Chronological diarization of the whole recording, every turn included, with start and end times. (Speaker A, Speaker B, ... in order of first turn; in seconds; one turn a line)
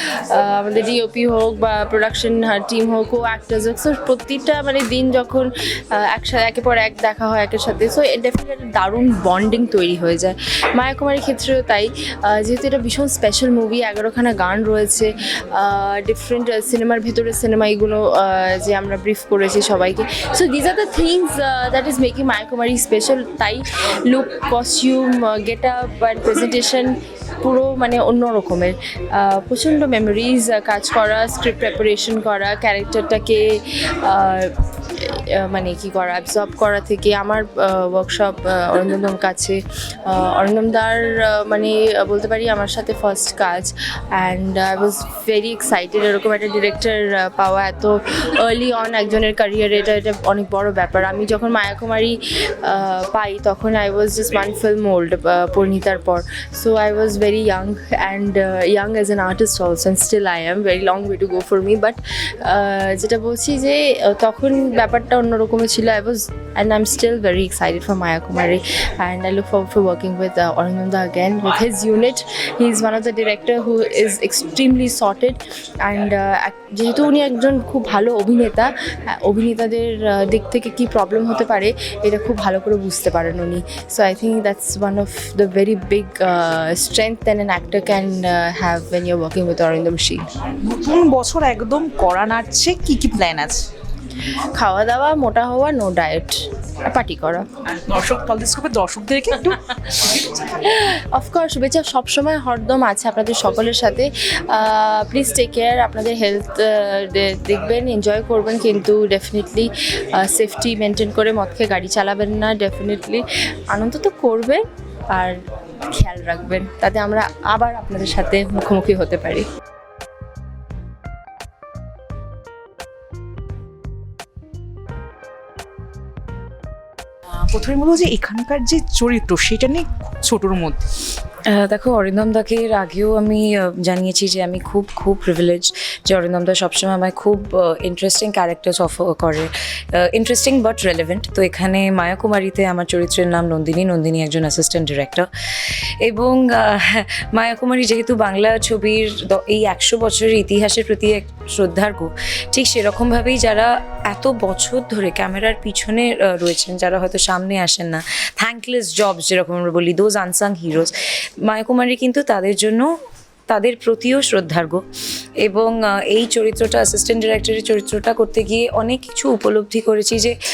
Speaker A: 0.3-33.4
Speaker A: 34.0-34.5
Speaker A: 35.0-39.6
Speaker A: 40.1-90.2
Speaker B: 90.6-93.7
Speaker A: 94.5-97.5
Speaker B: 97.7-100.5
Speaker A: 100.7-115.3
Speaker A: 116.0-119.4
Speaker B: 127.3-130.8
Speaker C: 131.5-160.9
Speaker C: 161.5-162.9
Speaker C: 163.5-164.8
Speaker C: 165.4-170.3